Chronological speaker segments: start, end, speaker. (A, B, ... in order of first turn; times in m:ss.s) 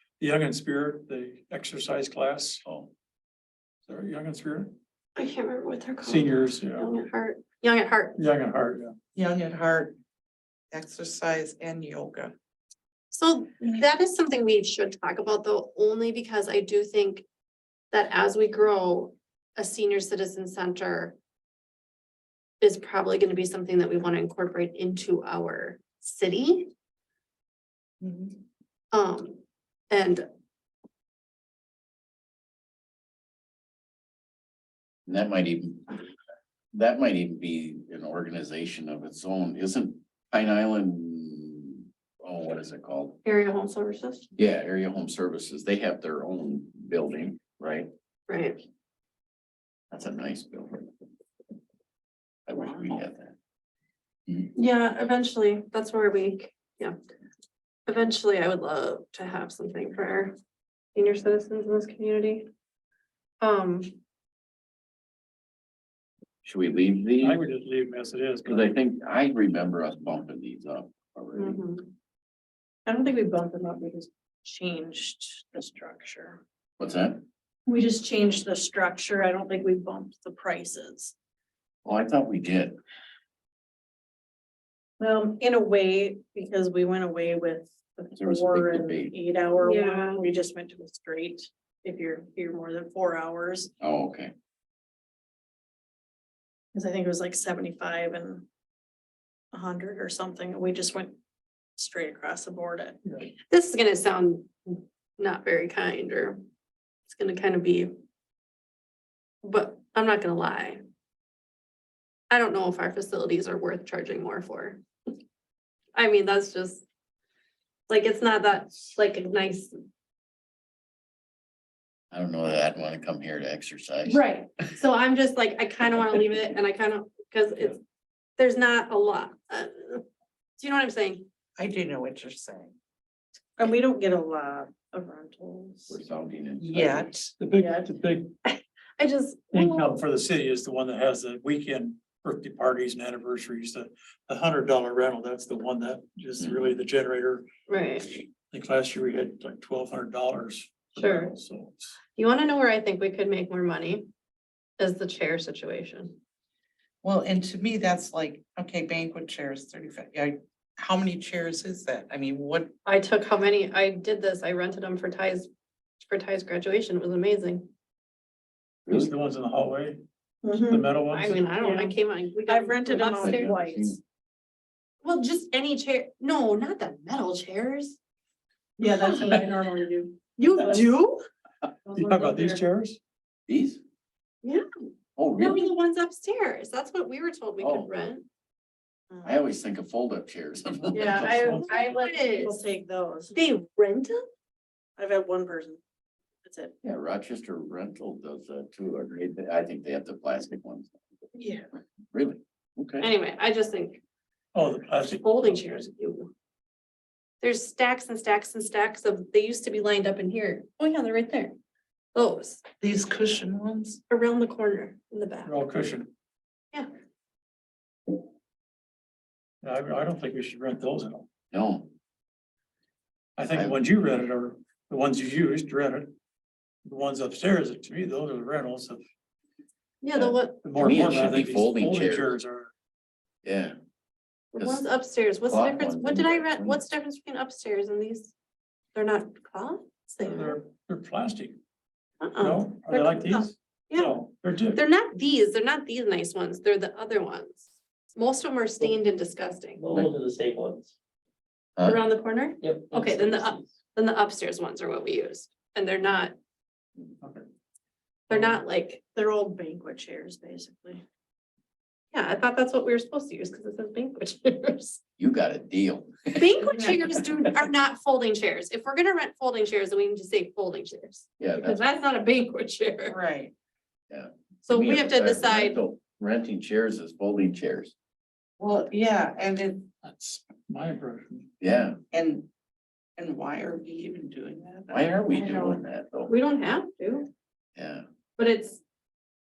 0:00.2-0:02.6 A
0:02.6-0:02.9 B
0:03.9-0:04.7 A
0:05.2-0:08.2 C
0:06.0-0:06.9 A
0:08.2-0:09.0 A
0:09.2-0:10.0 D
0:10.7-0:12.3 D
0:13.1-0:17.2 C
0:17.9-0:21.2 C
0:22.6-0:26.7 C
0:28.0-0:28.3 D
0:28.9-0:30.2 C
0:35.1-0:36.0 B
0:36.7-0:43.2 B
0:43.2-0:44.3 C
0:44.4-0:47.9 B
0:48.3-0:48.6 C
0:49.9-0:50.9 B
0:52.5-0:53.4 B
0:54.6-0:57.0 C
0:57.9-1:00.3 C
1:01.0-1:02.5 C
1:03.4-1:04.0 C
1:06.4-1:07.4 B
1:07.2-1:08.7 A
1:08.4-1:11.6 B
1:11.4-1:11.9 C
1:12.9-1:16.4 E
1:16.8-1:17.2 B
1:17.7-1:21.1 E
1:21.8-1:22.8 B
1:25.0-1:33.7 E
1:28.2-1:29.2 B
1:29.6-1:30.2 C
1:33.8-1:34.3 B
1:36.7-1:38.4 E
1:39.5-1:41.2 E
1:41.8-1:43.0 E
1:43.5-1:46.4 C
1:47.1-1:47.9 C
1:49.4-1:50.8 C
1:52.3-1:54.8 C
1:56.0-1:56.8 C
1:57.9-1:59.7 C
2:02.1-2:04.2 B
2:04.1-2:07.8 C
2:08.4-2:10.0 C
2:10.6-2:11.3 C
2:11.6-2:12.7 D
2:13.6-2:16.0 E
2:15.9-2:17.1 B
2:16.6-2:17.3 D
2:17.4-2:18.4 A
2:18.4-2:20.0 C
2:19.5-2:27.5 A
2:27.7-2:28.2 C
2:28.4-2:32.0 A
2:31.0-2:31.3 C
2:32.2-2:34.1 C
2:34.8-2:36.2 C
2:37.0-2:42.7 D
2:42.8-2:45.5 C
2:46.0-2:47.7 C
2:48.9-2:50.0 A
2:50.4-2:51.0 E
2:50.6-2:51.5 A
2:51.1-2:53.6 C
2:51.5-2:52.0 E
2:52.5-2:54.0 E
2:53.2-2:54.0 B
2:55.0-2:58.0 C
2:58.8-3:00.9 E
3:00.4-3:01.2 C
3:01.9-3:02.6 E
3:01.9-3:03.0 A
3:03.5-3:03.8 B
3:05.2-3:05.7 B
3:05.4-3:08.3 C
3:07.6-3:07.9 B
3:09.1-3:09.4 E
3:09.2-3:11.6 B
3:10.9-3:11.8 A
3:10.9-3:13.4 E
3:11.5-3:12.6 C
3:13.3-3:14.2 C
3:15.0-3:15.8 E
3:16.4-3:16.7 E
3:16.8-3:21.0 B
3:21.4-3:21.7 E
3:22.1-3:23.1 B
3:23.0-3:24.0 C
3:24.6-3:25.6 A
3:25.0-3:26.3 C
3:27.4-3:31.6 C
3:32.2-3:32.6 C
3:32.8-3:34.0 D
3:34.1-3:35.5 C
3:35.4-3:36.1 A
3:39.6-3:41.3 A
3:41.5-3:41.9 B
3:43.4-3:46.2 A
3:43.5-3:43.8 B
3:46.8-3:49.0 A
3:50.0-3:50.7 C
3:50.2-3:52.3 B
3:50.6-3:52.7 A
3:53.4-3:53.8 B
3:54.5-3:58.3 C
3:54.6-3:54.8 B
3:55.5-3:56.8 B
3:59.0-4:00.6 C
4:00.2-4:01.6 A
4:02.2-4:04.2 C
4:02.4-4:04.8 A
4:04.8-4:09.9 C
4:09.8-4:10.9 F
4:11.8-4:16.3 C
4:12.6-4:13.7 F
4:18.3-4:19.0 C
4:18.3-4:18.6 A
4:19.2-4:21.0 E
4:22.1-4:25.0 C
4:25.2-4:27.3 B
4:26.3-4:33.2 C
4:31.4-4:31.8 B
4:33.1-4:33.5 D
4:34.1-4:37.9 B
4:34.6-4:35.8 C
4:38.6-4:39.9 D
4:40.0-4:41.5 A
4:41.6-4:42.0 B
4:42.1-4:42.5 D
4:43.2-4:45.8 D
4:44.9-4:46.3 B
4:46.3-4:47.3 C
4:47.8-4:48.0 B
4:48.4-4:48.8 C